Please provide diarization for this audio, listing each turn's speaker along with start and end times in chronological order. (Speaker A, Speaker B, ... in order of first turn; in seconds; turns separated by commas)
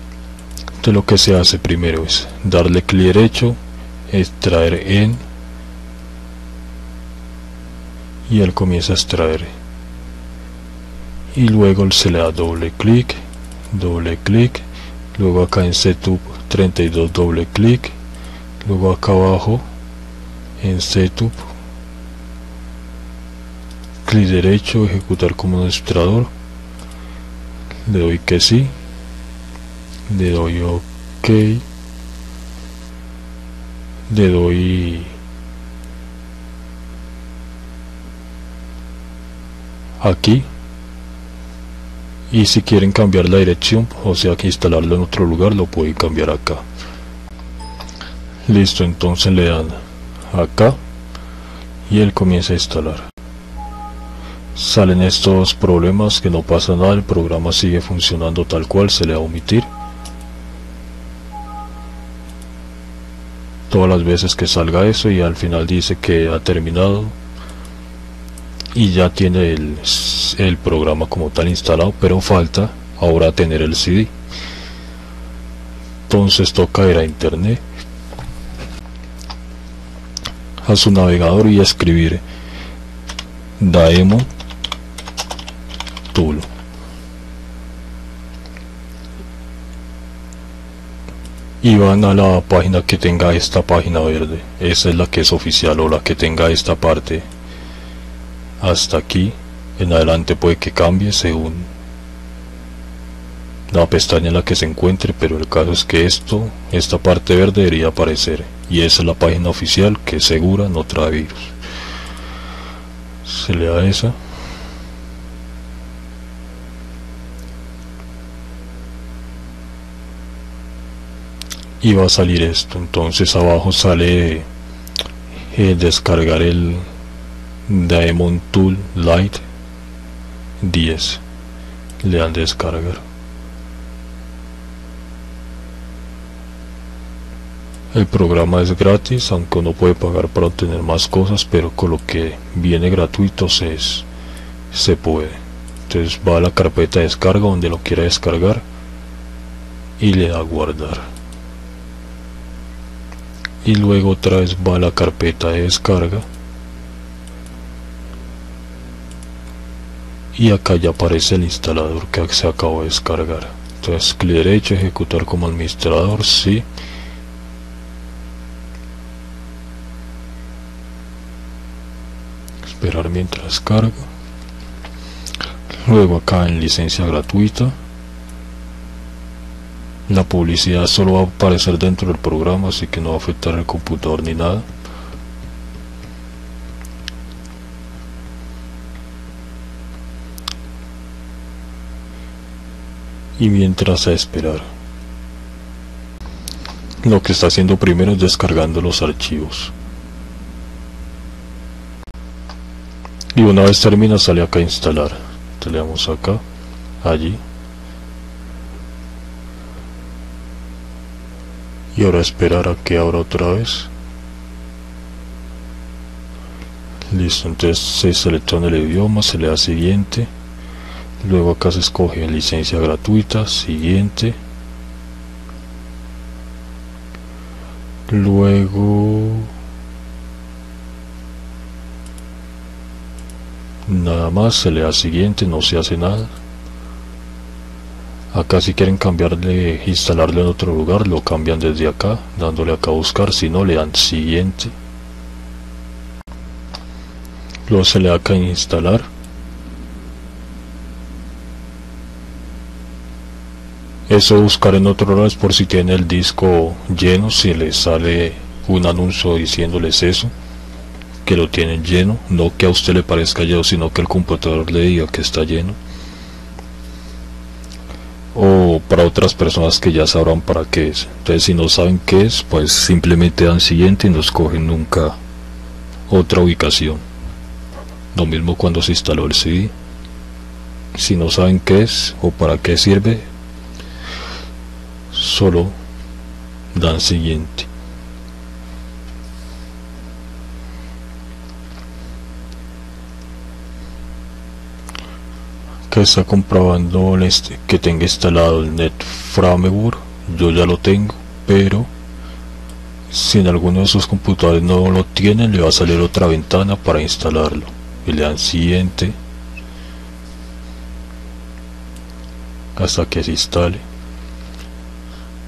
Speaker A: 0.8-3.6, Speaker A: 4.1-5.2, Speaker A: 8.3-9.5, Speaker A: 11.3-17.9, Speaker A: 18.6-19.6, Speaker A: 20.6-21.5, Speaker A: 24.0-26.3, Speaker A: 27.8-28.7, Speaker A: 30.1-31.6, Speaker A: 34.1-35.1, Speaker A: 40.0-40.5, Speaker A: 42.3-46.6, Speaker A: 48.5-49.8, Speaker A: 50.3-50.8, Speaker A: 51.9-53.1, Speaker A: 54.5-59.7, Speaker A: 63.7-67.2, Speaker A: 68.7-74.1, Speaker A: 76.1-77.6, Speaker A: 80.6-82.2, Speaker A: 83.6-84.3, Speaker A: 86.1-86.5, Speaker A: 91.6-97.2, Speaker A: 98.6-101.7, Speaker A: 103.7-111.5, Speaker A: 113.2-114.2, Speaker A: 121.8-124.5, Speaker A: 125.5-126.8, Speaker A: 127.7-129.4, Speaker A: 130.6-131.2, Speaker A: 132.0-133.0, Speaker A: 137.9-144.1, Speaker A: 144.7-148.6, Speaker A: 150.0-151.0, Speaker A: 153.6-156.2, Speaker A: 160.3-166.6, Speaker A: 172.6-174.0, Speaker A: 175.8-177.7, Speaker A: 180.1-184.7, Speaker A: 193.4-194.7, Speaker A: 197.0-199.7, Speaker A: 203.3-206.4, Speaker A: 207.0-207.4, Speaker A: 211.9-213.9, Speaker A: 217.1-220.3, Speaker A: 221.2-224.4, Speaker A: 228.1-229.5, Speaker A: 233.8-236.3, Speaker A: 238.3-244.7, Speaker A: 247.7-249.1, Speaker A: 254.1-260.3, Speaker A: 261.2-265.8, Speaker A: 268.3-275.2, Speaker A: 276.1-277.0, Speaker A: 278.1-279.7, Speaker A: 280.9-283.3, Speaker A: 285.1-285.8, Speaker A: 286.7-287.7, Speaker A: 295.9-301.9, Speaker A: 303.1-309.1, Speaker A: 312.8-313.8